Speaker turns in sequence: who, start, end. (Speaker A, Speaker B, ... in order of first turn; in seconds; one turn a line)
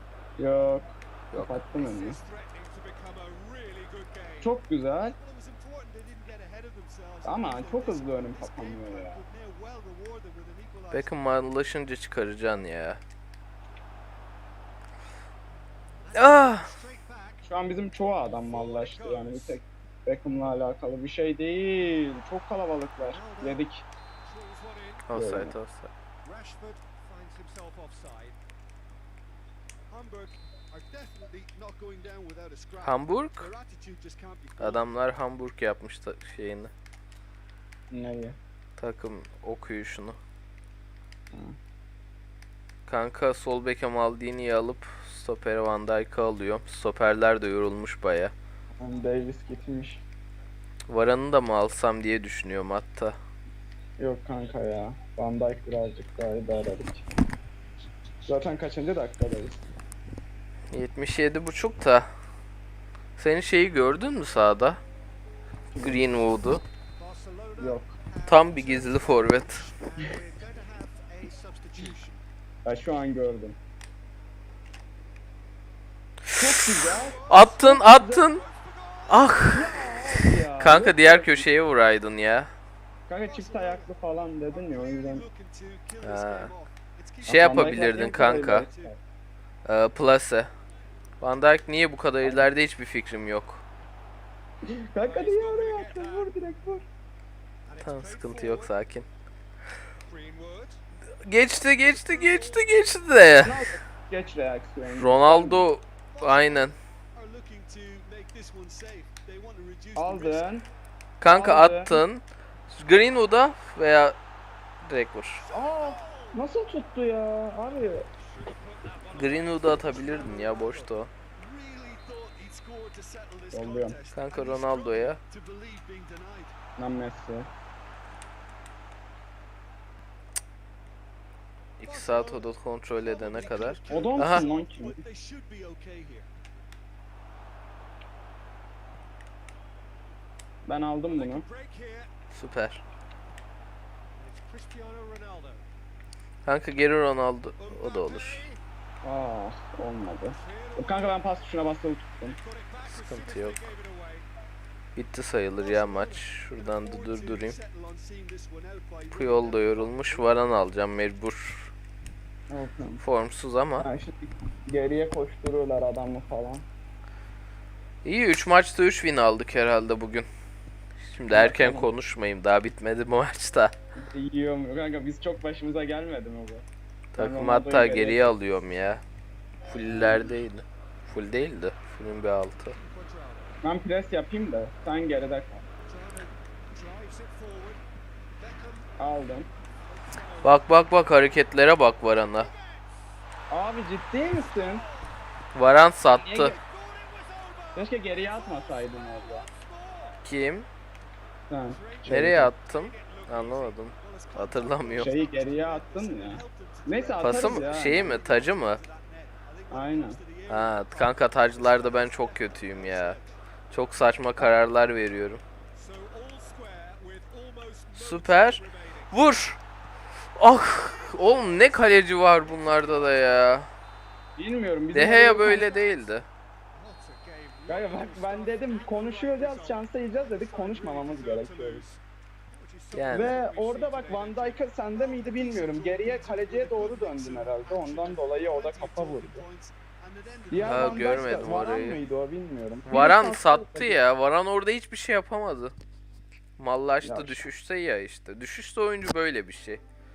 Speaker A: 0.4-2.2
Speaker B: 1.3-1.7
Speaker C: 1.7-11.2
Speaker A: 4.4-5.2
Speaker A: 7.2-9.2
Speaker B: 10.9-13.0
Speaker C: 16.0-17.4
Speaker B: 16.1-16.7
Speaker A: 17.4-23.8
Speaker C: 18.3-19.6
Speaker C: 23.0-23.6
Speaker C: 24.2-25.1
Speaker B: 25.1-25.9
Speaker A: 25.1-25.5
Speaker C: 26.2-28.4
Speaker C: 29.9-34.9
Speaker B: 32.8-33.5
Speaker B: 34.6-36.7
Speaker A: 37.9-38.4
Speaker B: 38.8-40.2
Speaker B: 42.9-48.3
Speaker A: 48.8-50.0
Speaker B: 50.9-53.2
Speaker A: 54.0-57.0
Speaker A: 58.2-59.6
Speaker B: 60.7-62.1
Speaker B: 63.2-64.8
Speaker A: 65.7-66.0
Speaker B: 65.8-66.6
Speaker C: 67.0-72.2
Speaker A: 67.6-67.9
Speaker B: 68.3-69.6
Speaker A: 72.6-73.6
Speaker B: 76.3-78.4
Speaker A: 76.4-78.2
Speaker C: 76.8-77.6
Speaker C: 78.2-79.4
Speaker B: 79.1-80.1
Speaker A: 79.5-81.5
Speaker B: 80.6-82.5
Speaker A: 83.1-85.2
Speaker C: 83.2-88.9
Speaker B: 86.0-86.5
Speaker B: 87.2-88.7
Speaker A: 87.2-89.0
Speaker B: 89.6-90.5
Speaker B: 91.2-93.6
Speaker A: 92.2-92.5
Speaker A: 94.7-96.8
Speaker C: 95.0-96.3
Speaker C: 97.7-98.7
Speaker B: 97.8-99.1
Speaker C: 100.0-100.8
Speaker B: 101.2-103.6
Speaker C: 101.8-102.7
Speaker A: 103.4-105.6
Speaker B: 104.9-106.7
Speaker C: 106.1-110.6
Speaker A: 109.9-110.7
Speaker B: 111.2-114.2
Speaker A: 111.2-112.0
Speaker B: 114.8-115.4
Speaker C: 115.4-116.4
Speaker A: 115.5-118.0
Speaker C: 118.2-126.5
Speaker B: 119.1-121.1
Speaker A: 123.5-124.0
Speaker B: 124.1-125.2
Speaker A: 126.8-127.5
Speaker B: 131.8-134.4
Speaker C: 131.8-136.3
Speaker A: 133.9-135.0
Speaker A: 140.6-141.4
Speaker C: 141.1-142.1
Speaker B: 142.3-142.8
Speaker C: 144.2-145.7
Speaker B: 146.4-148.4
Speaker C: 147.6-148.6
Speaker A: 149.0-152.4
Speaker C: 150.3-151.2
Speaker C: 152.2-154.3
Speaker B: 152.9-153.7
Speaker B: 154.9-157.6
Speaker C: 155.6-160.4
Speaker B: 159.1-161.7
Speaker A: 162.5-163.0
Speaker B: 163.0-163.9
Speaker A: 163.8-166.7
Speaker B: 168.0-170.3
Speaker B: 171.0-173.7
Speaker A: 171.3-171.9
Speaker A: 174.0-176.6
Speaker B: 177.1-179.0
Speaker A: 177.2-178.4
Speaker B: 179.7-182.7
Speaker A: 179.9-180.4
Speaker C: 182.7-183.6
Speaker A: 183.6-185.7
Speaker C: 185.9-187.8
Speaker C: 188.4-188.9
Speaker A: 189.0-189.5
Speaker C: 189.8-190.8
Speaker B: 190.4-192.5
Speaker C: 192.4-193.0
Speaker A: 193.5-194.8
Speaker C: 194.2-195.2
Speaker B: 195.5-196.5
Speaker A: 196.1-196.6
Speaker C: 196.4-200.2
Speaker A: 197.7-199.4
Speaker B: 200.2-200.7
Speaker A: 201.5-202.5
Speaker C: 201.7-213.4
Speaker B: 202.1-205.1
Speaker A: 205.0-208.2
Speaker B: 207.2-208.8
Speaker A: 209.7-210.2
Speaker B: 210.5-213.2
Speaker B: 213.7-215.4
Speaker C: 215.7-219.2
Speaker B: 217.9-219.6
Speaker B: 220.3-223.7
Speaker C: 221.1-223.3
Speaker A: 224.4-225.7
Speaker B: 224.9-226.3
Speaker C: 225.4-226.1
Speaker C: 226.7-241.7
Speaker A: 227.7-231.8
Speaker B: 232.9-233.4
Speaker A: 233.1-239.4
Speaker A: 240.5-244.0
Speaker B: 240.6-242.0
Speaker B: 242.9-245.7
Speaker B: 246.6-249.8
Speaker A: 247.0-247.5